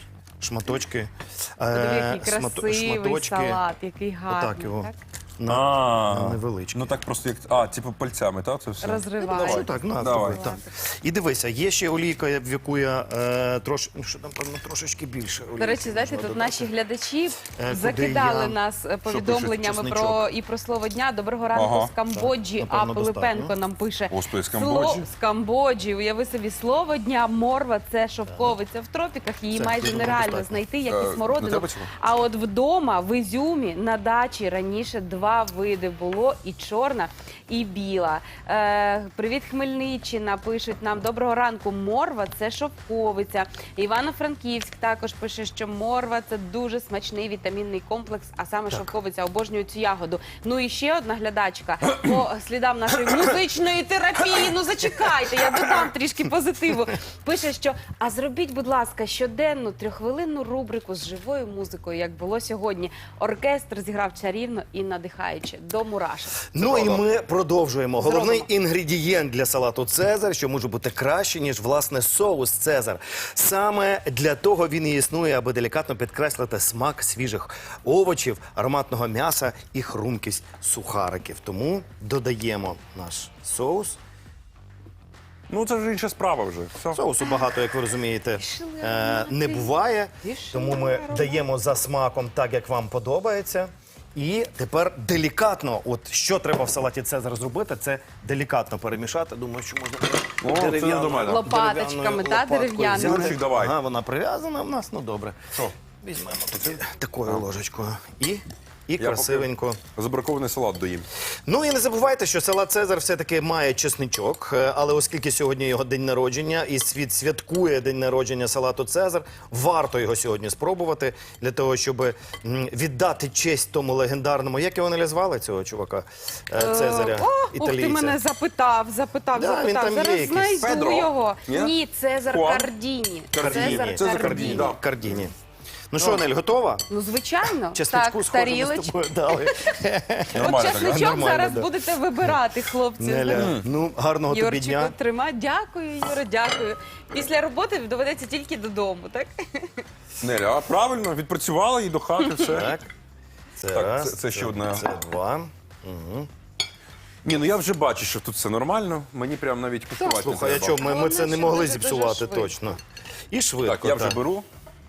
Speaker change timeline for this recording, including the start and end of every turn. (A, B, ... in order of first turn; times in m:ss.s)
0:00.4-0:03.6 A
0:01.7-0:05.0 B
0:04.3-0:06.9 A
0:05.5-0:10.5 C
0:08.8-0:10.7 B
0:09.3-0:16.7 A
0:15.6-1:06.4 B
0:17.6-0:18.6 A
0:19.1-0:20.2 A
0:19.2-0:19.6 C
0:21.5-0:21.9 C
0:22.1-0:23.5 A
0:24.1-0:25.0 C
0:29.5-0:30.6 A
0:30.9-0:31.9 C
1:06.5-1:24.0 A
1:06.6-1:07.0 C
1:08.0-1:08.5 B
1:25.5-1:27.0 C
1:26.9-1:45.4 A
1:28.4-1:31.4 B
1:40.4-1:41.5 C
1:41.2-1:43.3 B
1:42.9-1:43.7 C
1:46.0-1:49.8 A
1:49.0-1:51.1 C
1:51.5-2:08.2 A
2:06.5-2:14.8 B
2:09.3-2:10.7 A
2:10.6-2:11.7 C
2:12.3-2:12.7 C
2:13.3-2:14.8 C
2:13.3-2:15.3 A
2:15.9-2:16.8 A
2:16.9-2:19.0 B
2:17.7-2:21.7 A
2:20.3-2:21.3 C
2:20.4-2:23.6 B
2:23.0-2:24.9 A
2:23.3-2:23.6 C
2:24.3-2:29.8 B
2:30.2-2:32.7 C
2:32.2-2:32.5 B
2:32.4-2:32.9 A
2:33.6-2:36.3 A
2:33.7-2:34.8 C
2:37.2-2:40.8 C
2:40.0-2:42.8 A
2:40.7-2:42.5 B
2:43.3-2:44.2 A
2:43.6-2:44.4 C